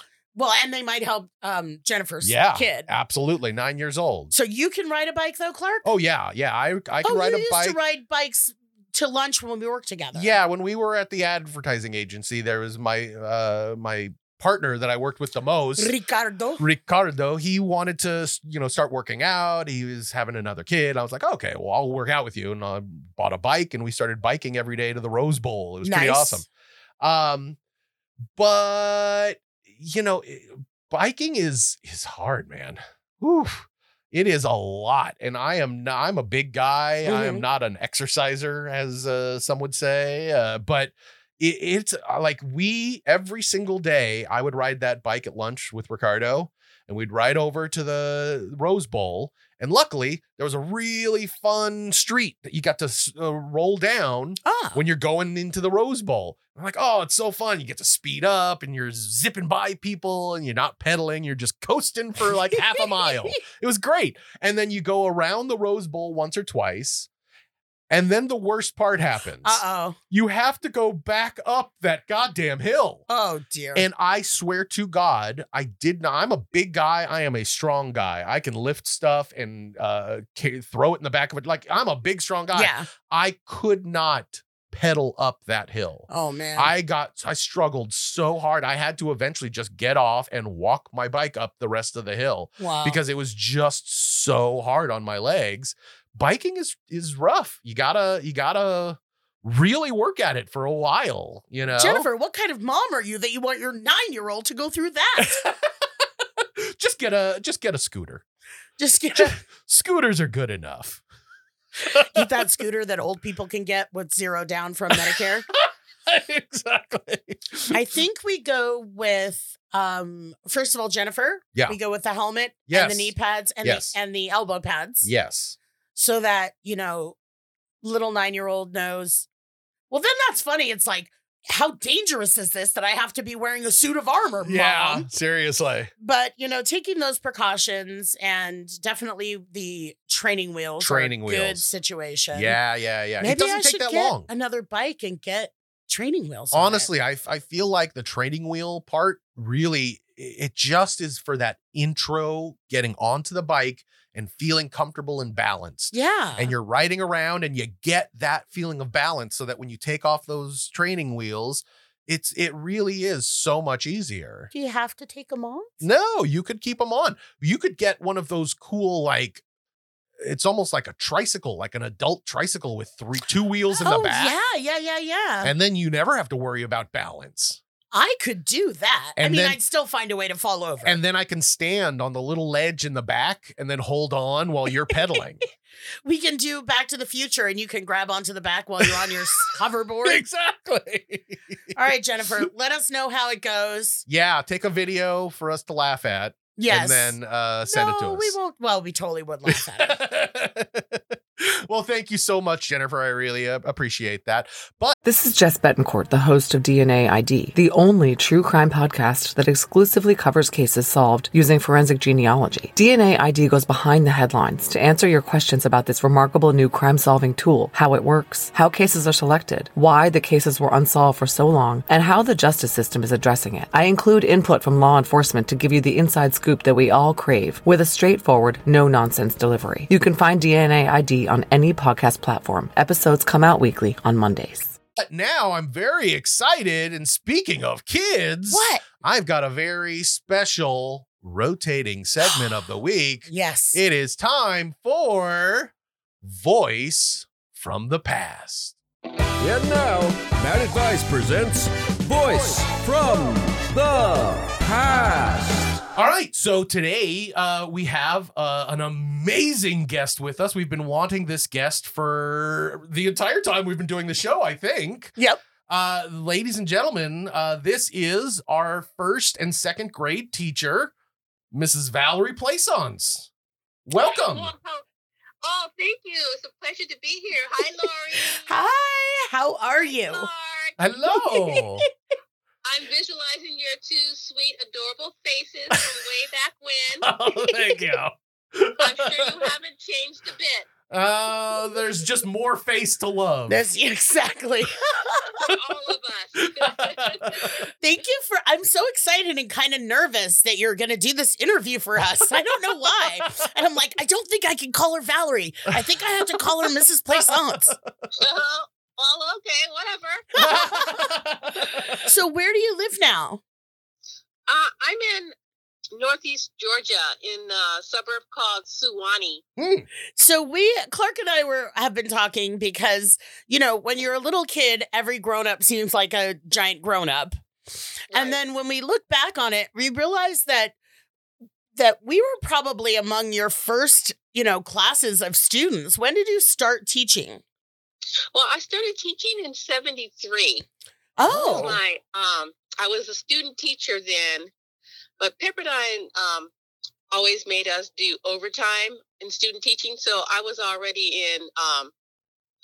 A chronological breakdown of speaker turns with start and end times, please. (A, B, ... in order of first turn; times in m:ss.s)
0:00.3-0:02.9 A
0:02.2-0:04.3 B
0:04.3-0:05.9 A
0:05.8-0:07.8 B
0:07.0-0:10.4 A
0:10.1-0:15.9 B
0:15.8-0:16.6 A
0:16.6-0:26.4 B
0:25.8-0:26.4 A
0:27.0-0:27.6 B
0:28.3-1:07.1 B
0:37.0-0:37.4 A
0:54.4-0:54.8 A
1:02.5-1:03.4 A
1:07.9-1:13.0 B
1:09.4-1:10.0 A
1:13.1-1:13.9 A
1:13.7-1:42.1 B
1:22.5-1:22.9 A
1:26.1-1:26.7 A
1:32.6-1:33.0 A
1:41.8-1:45.4 A
1:45.2-1:45.6 B
1:46.4-1:48.2 B
1:48.8-1:49.4 A
1:49.1-1:51.0 B
1:51.8-1:52.4 B
1:52.1-1:55.5 A
1:54.9-1:57.8 B
1:57.7-2:05.1 A
2:02.7-2:03.9 B
2:05.0-2:05.6 B
2:05.9-2:07.2 A
2:07.8-2:09.3 A
2:09.9-2:15.1 A
2:14.4-2:15.9 B
2:16.0-2:22.6 A
2:20.8-2:21.7 B
2:22.3-2:24.3 B
2:23.2-2:26.9 A
2:26.5-2:44.5 B
2:35.9-2:36.5 A
2:44.5-2:45.7 A
2:45.8-2:49.4 B
2:50.2-2:54.4 B
2:53.8-2:55.5 A
2:55.4-2:57.6 B
2:57.9-3:01.0 A
2:59.2-2:59.6 B
3:00.8-3:05.4 B
3:06.0-3:10.2 A
3:10.0-3:11.8 B
3:11.7-3:14.0 A
3:14.1-3:18.4 B
3:16.6-3:20.0 A
3:19.5-3:24.9 B
3:25.0-3:54.8 C
3:55.0-4:08.8 B
3:58.5-3:58.8 A
4:03.3-4:03.8 A
4:09.4-4:15.8 D
4:16.0-4:25.1 B
4:25.7-4:30.9 B
4:31.5-4:33.3 B
4:33.8-4:34.5 B
4:34.0-4:34.8 E
4:35.4-4:38.5 E
4:38.4-4:40.3 A
4:40.0-4:40.8 E
4:40.8-4:41.8 B
4:41.1-4:41.6 A
4:42.6-4:47.1 E
4:47.0-4:49.5 B
4:48.8-4:50.7 E
4:50.9-4:53.6 B
4:53.5-4:54.8 A
4:55.4-4:57.6 E
4:56.5-4:57.5 B
4:57.8-5:07.7 A
5:02.2-5:03.3 B
5:05.7-5:07.9 B
5:08.2-5:10.5 E
5:10.4-5:11.0 A
5:10.4-5:12.1 B
5:12.0-5:13.4 A
5:14.5-5:15.3 E
5:15.9-5:19.4 E
5:19.6-5:19.9 B
5:20.2-5:27.4 A
5:28.1-5:28.4 E
5:28.1-5:30.7 A
5:31.7-5:37.4 A
5:38.3-5:40.6 E
5:41.2-5:41.8 A
5:41.3-5:41.8 B
5:41.3-5:44.5 E
5:45.2-5:46.5 E
5:47.1-5:51.9 E